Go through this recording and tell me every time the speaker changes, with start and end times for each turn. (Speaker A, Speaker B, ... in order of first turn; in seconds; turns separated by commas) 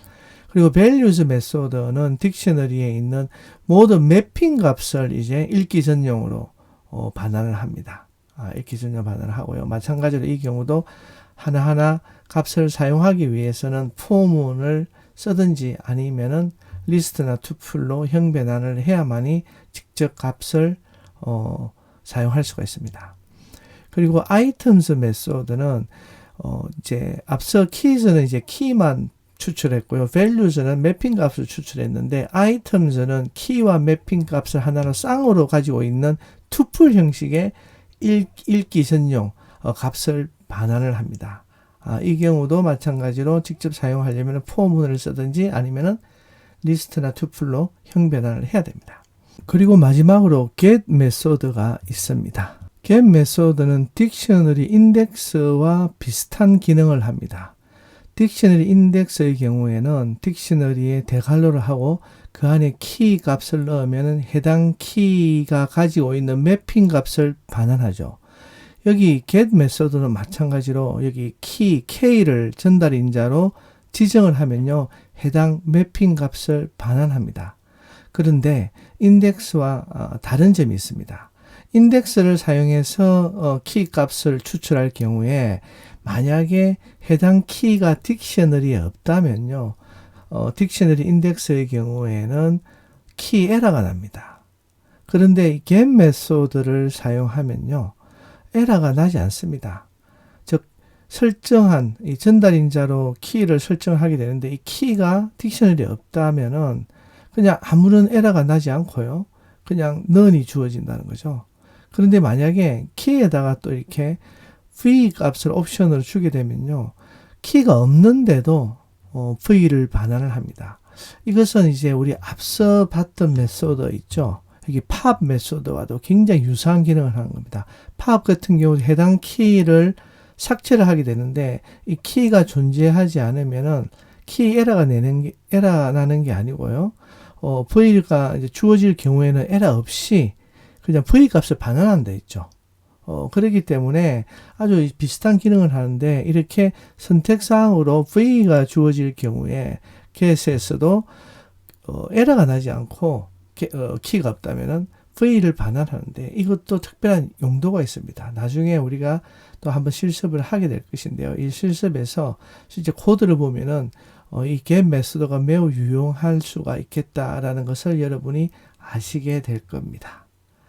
Speaker A: 0.5-23.1, Speaker A: 23.9-46.0, Speaker A: 46.6-57.5, Speaker A: 58.1-68.2, Speaker A: 68.8-77.6, Speaker A: 78.1-89.8, Speaker A: 90.3-92.6, Speaker A: 93.2-94.4, Speaker A: 95.1-98.0, Speaker A: 98.5-99.9, Speaker A: 100.5-114.2, Speaker A: 114.8-142.5, Speaker A: 143.1-151.1, Speaker A: 151.8-170.2